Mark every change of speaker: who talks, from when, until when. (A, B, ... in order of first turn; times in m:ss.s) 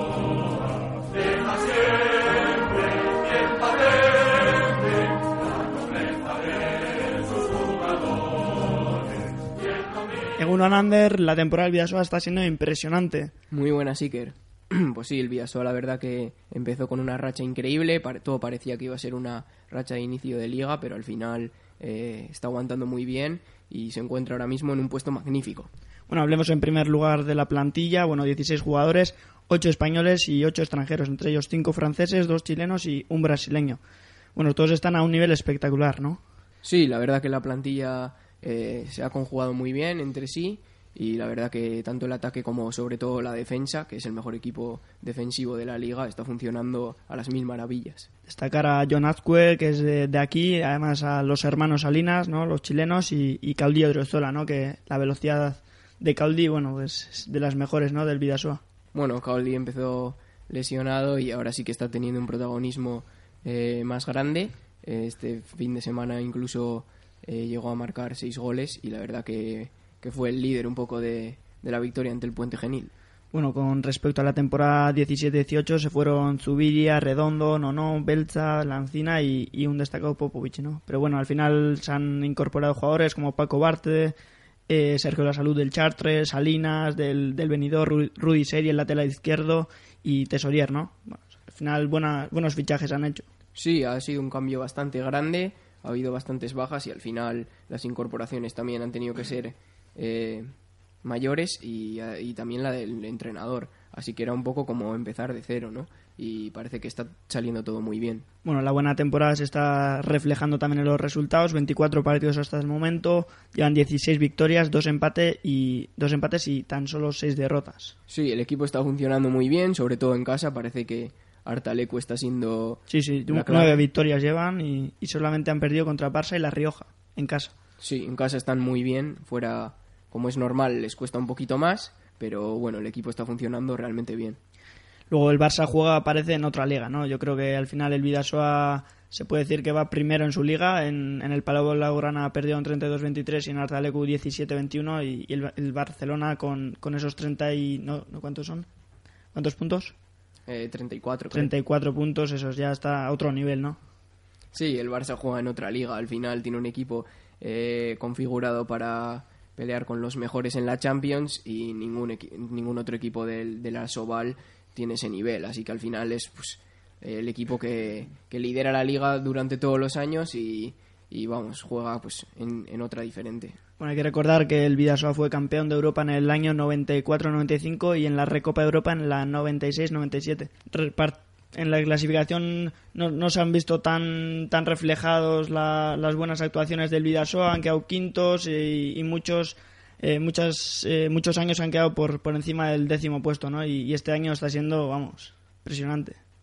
0:10.4-0:13.3 A
0:13.5-0:25.7 B
0:26.1-0:33.8 A
0:34.3-0:36.2 A
0:36.6-0:48.1 B
0:48.3-0:58.6 A
0:58.9-1:12.9 B
1:13.3-1:24.2 A
1:24.7-1:33.2 A
1:33.5-1:40.5 B
1:41.0-1:48.2 B
1:48.4-1:58.0 A
1:58.1-2:03.8 B
2:02.9-2:07.5 A
2:07.8-2:14.4 B
2:15.1-2:28.7 A
2:29.3-2:29.9 A
2:30.5-2:31.5 B
2:31.3-2:33.8 A
2:34.5-2:53.6 B
2:53.8-3:16.2 A